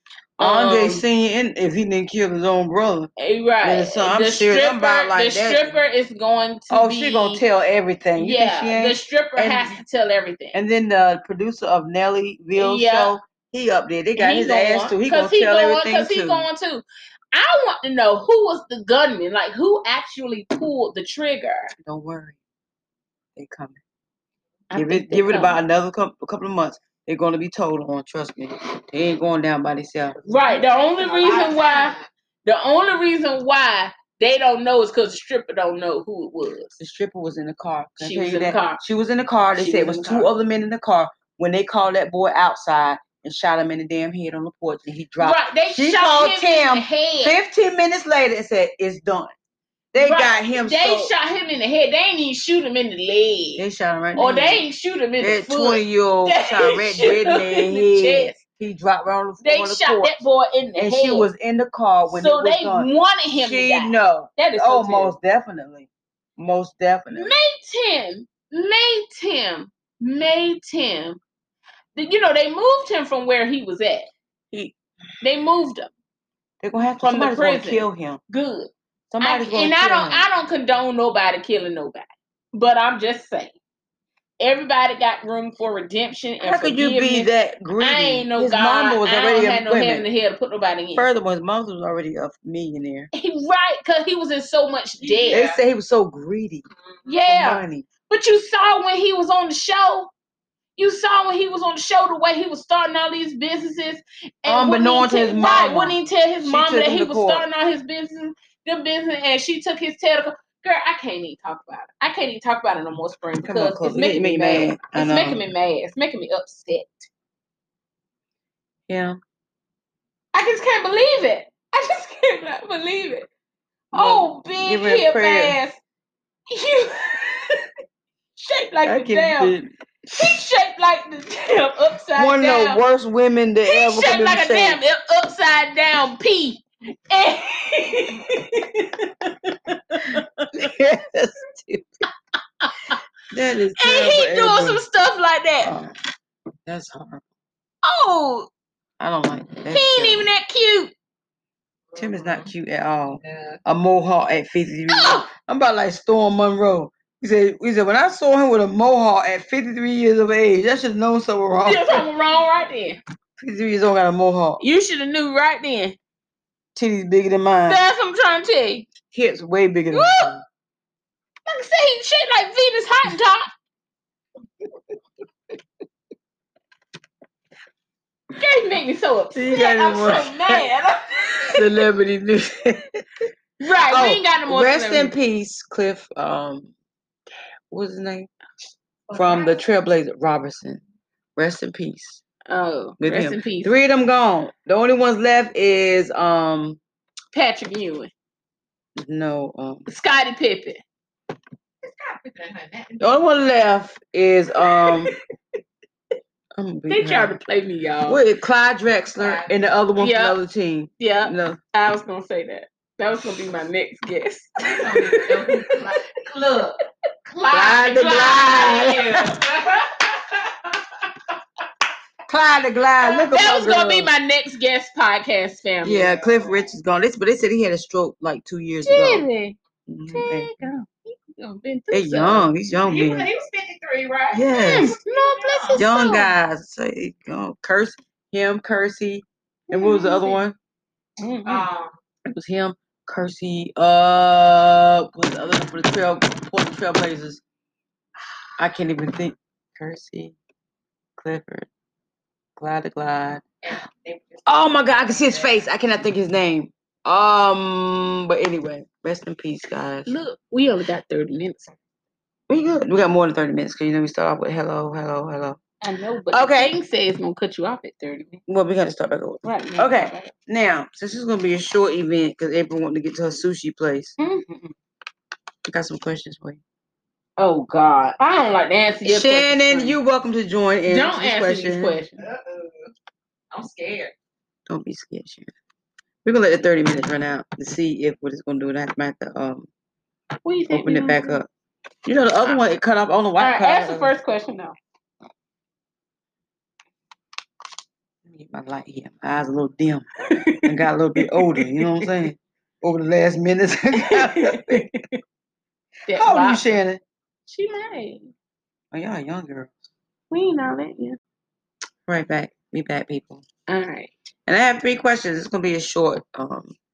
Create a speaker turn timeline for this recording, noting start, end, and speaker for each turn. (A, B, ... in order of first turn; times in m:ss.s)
0:00.4-0:01.0 A
0:00.4-0:03.1 B
0:03.2-0:07.4 A
0:03.6-0:05.7 B
0:06.7-0:09.8 B
0:08.2-0:10.6 A
0:10.5-0:16.5 B
0:12.6-0:13.2 A
0:14.2-0:21.7 A
0:21.8-0:22.4 B
0:23.4-0:23.8 B
0:24.7-0:25.6 A
0:24.8-0:30.2 B
0:30.2-0:32.1 C
0:30.3-0:36.7 A
0:36.8-0:49.3 B
0:38.0-0:38.8 A
0:39.6-0:40.3 A
0:45.2-0:47.4 A
0:49.9-0:51.1 B
0:50.0-0:53.6 A
0:53.6-0:54.6 B
0:54.2-0:58.4 A
0:55.2-1:00.2 B
0:59.4-1:01.3 A
1:00.8-1:07.3 B
1:02.1-1:05.1 A
1:07.1-1:11.2 A
1:12.0-1:14.1 A
1:15.2-1:15.9 A
1:16.6-1:18.2 B
1:17.0-1:23.6 A
1:19.1-1:20.2 B
1:24.4-1:31.1 A
1:26.4-1:30.0 B
1:31.0-1:33.1 B
1:33.1-1:35.5 A
1:35.0-1:35.6 C
1:35.3-1:36.6 B
1:37.1-1:40.1 A
1:37.3-1:37.9 B
1:40.8-1:57.1 A
1:44.5-1:47.4 B
1:53.4-1:55.4 B
1:58.9-1:59.2 B
2:00.3-2:03.3 A
2:03.9-2:05.6 B
2:03.9-2:05.8 A
2:06.5-2:07.6 A
2:08.4-2:09.6 A
2:08.8-2:10.4 B
2:10.1-2:12.8 A
2:12.2-2:14.8 B
2:13.7-2:20.7 A
2:20.6-2:21.9 B
2:22.6-2:23.0 A
2:23.3-2:24.8 B
2:23.8-2:25.8 A
2:25.6-2:25.9 B
2:26.7-2:27.2 B
2:27.8-2:28.5 A
2:29.0-2:30.3 B
2:29.7-2:30.9 A
2:31.9-2:32.5 C
2:32.0-2:42.1 B
2:33.2-2:33.6 C
2:34.9-2:35.3 A
2:41.6-2:43.0 A
2:43.4-2:44.6 B
2:44.6-2:46.0 A
2:46.8-2:47.8 B
2:47.7-2:48.9 A
2:49.1-2:50.4 B
2:49.9-2:50.4 A
2:51.5-2:53.5 A
2:58.4-3:01.7 A
2:59.4-3:00.6 B
3:01.6-3:03.3 B
3:03.6-3:05.1 A
3:03.8-3:06.7 B
3:07.7-3:08.3 B
3:09.1-3:09.6 C
3:09.1-3:10.8 B
3:11.4-3:12.2 B
3:12.5-3:13.8 A
3:13.0-3:16.8 B
3:17.3-3:18.1 A
3:19.0-3:19.9 B
3:19.9-3:20.8 A
3:21.8-3:23.5 C
3:23.0-3:25.1 B
3:26.6-3:27.4 B
3:26.9-3:28.2 A
3:28.1-3:31.6 B
3:29.2-3:29.5 C
3:30.0-3:30.4 A
3:31.0-3:35.8 A
3:34.6-3:40.9 C
3:37.4-3:38.6 A
3:37.5-3:39.4 B
3:42.3-3:44.1 B
3:43.0-3:46.2 A
3:45.8-3:49.2 B
3:46.2-3:46.7 C
3:48.8-3:49.6 A
3:49.9-3:50.5 B
3:50.1-3:52.5 A
3:51.9-3:53.3 B
3:52.8-3:55.8 C
3:54.3-3:55.0 B
3:54.6-3:56.3 A
3:55.8-4:00.6 B
3:59.7-4:00.4 A
4:01.2-4:01.7 A
4:01.4-4:01.9 C
4:02.3-4:07.4 B
4:08.6-4:10.4 B
4:11.2-4:11.7 B
4:12.6-4:13.4 B
4:13.6-4:15.6 C
4:14.5-4:20.2 B
4:20.1-4:21.7 A
4:22.5-4:25.6 B
4:25.8-4:28.4 A
4:26.3-4:26.7 B
4:28.5-4:34.2 B
4:29.4-4:30.3 A
4:34.2-4:34.7 A
4:35.7-4:36.6 B
4:37.4-4:40.0 A
4:39.0-4:42.0 B
4:40.9-4:42.2 A
4:42.2-4:42.9 C
4:43.5-4:44.1 C
4:44.7-4:45.5 B
4:46.2-4:49.7 B
4:50.4-4:51.4 A
4:50.7-4:51.5 B
4:52.0-4:54.1 B
4:53.4-4:54.8 A
4:58.3-5:04.8 B
5:00.3-5:02.1 A
5:04.0-5:05.2 A
5:06.1-5:06.6 A
5:06.1-5:07.0 B
5:07.5-5:08.3 A
5:08.9-5:09.8 B
5:10.3-5:11.2 A
5:12.1-5:13.4 B
5:13.7-5:14.1 A
5:14.5-5:16.8 B